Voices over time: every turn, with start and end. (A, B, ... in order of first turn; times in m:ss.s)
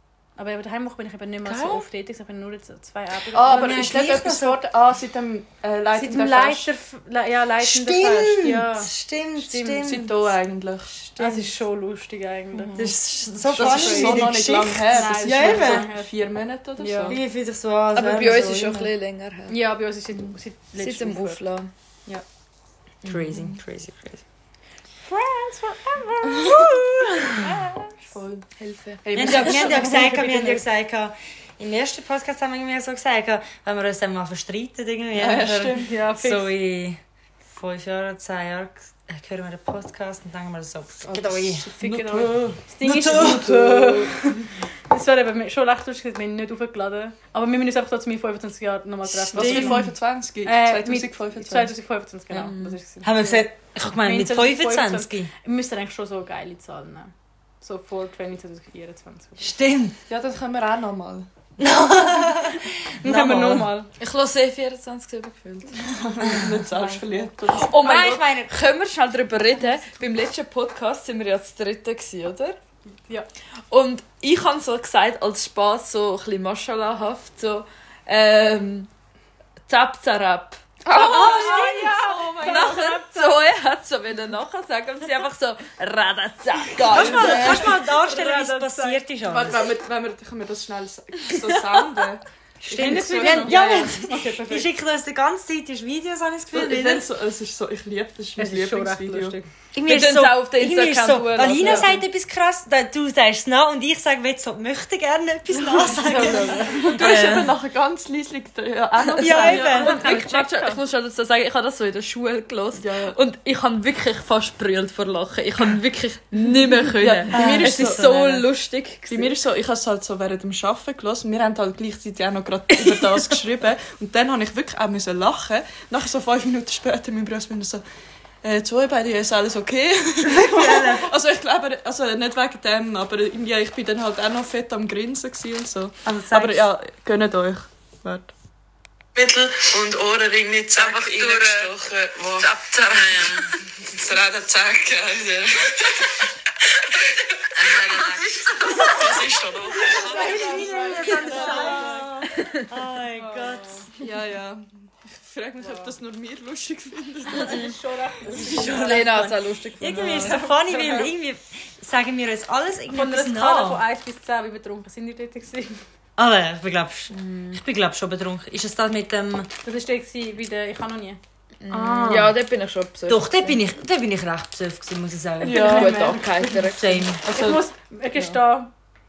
0:00.4-0:03.9 A
0:01.4-0:01.8 B
0:03.3-0:06.7 C
0:03.4-0:04.6 B
0:05.9-0:09.9 A
0:07.6-0:10.1 B
0:09.8-0:10.9 C
0:10.9-0:11.5 B
0:11.2-0:12.8 A
0:12.6-0:12.9 C
0:12.8-0:15.9 B
0:13.4-0:17.2 C
0:13.6-0:14.3 A
0:14.9-0:16.1 A
0:16.8-0:17.2 A
0:17.1-0:18.9 B
0:17.9-0:19.6 D
0:18.1-0:18.8 C
0:19.5-0:21.4 A
0:20.8-0:21.7 D
0:23.0-0:24.2 B
0:23.0-0:23.3 D
0:25.0-0:27.9 A
0:27.1-0:27.5 B
0:28.1-0:28.5 C
0:28.6-0:29.9 D
0:29.0-0:30.6 C
0:29.1-0:41.7 B
0:35.1-0:35.9 C
0:35.8-0:36.5 A
0:41.0-0:44.3 C
0:41.8-0:49.9 A
0:42.8-0:43.4 B
0:49.1-0:49.8 B
0:49.3-0:51.7 C
0:50.4-0:59.5 A
0:52.3-0:52.8 D
0:53.0-0:55.3 B
0:59.4-1:00.0 B
1:00.1-1:01.3 C
1:01.6-1:03.7 B
1:03.0-1:03.9 A
1:03.0-1:03.6 C
1:04.0-1:12.6 D
1:05.9-1:08.0 C
1:07.7-1:08.5 B
1:13.7-1:18.9 D
1:19.7-1:27.7 D
1:20.9-1:23.4 A
1:20.9-1:22.9 C
1:26.8-1:29.6 B
1:26.9-1:27.6 C
1:27.0-1:29.0 A
1:29.3-1:33.9 C
1:32.6-1:37.0 B
1:32.8-1:34.7 A
1:36.5-1:39.4 C
1:38.4-1:39.4 A
1:39.7-1:47.5 B
1:39.8-1:42.0 D
1:41.4-1:41.9 C
1:45.6-1:50.5 C
1:46.0-1:47.4 A
1:49.1-1:59.4 D
1:49.2-1:50.1 B
1:49.7-1:50.8 A
1:52.8-1:53.2 C
1:56.9-1:58.4 C
1:57.3-1:58.4 B
1:59.1-2:07.8 C
2:02.8-2:03.2 D
2:08.4-2:18.3 C
2:10.2-2:11.1 B
2:16.0-2:16.7 B
2:19.2-2:26.2 E
2:20.8-2:21.8 C
2:27.2-2:30.5 E
2:28.8-2:32.2 C
2:29.7-2:32.2 A
2:29.9-2:33.9 B
2:32.4-2:32.6 D
2:33.1-2:33.8 A
2:34.0-2:37.7 C
2:35.6-2:35.9 A
2:37.3-2:39.4 A
2:38.4-2:43.8 B
2:38.6-2:40.4 D
2:40.0-2:41.1 C
2:42.9-2:45.8 A
2:46.2-2:49.5 B
2:47.1-2:47.6 D
2:49.6-2:51.2 A
2:51.6-2:53.6 D
2:51.7-2:52.4 C
2:53.1-2:57.2 B
2:55.4-2:56.3 C
2:55.5-2:56.4 A
2:55.6-2:57.1 D
2:57.2-2:57.6 C
2:57.2-2:58.7 A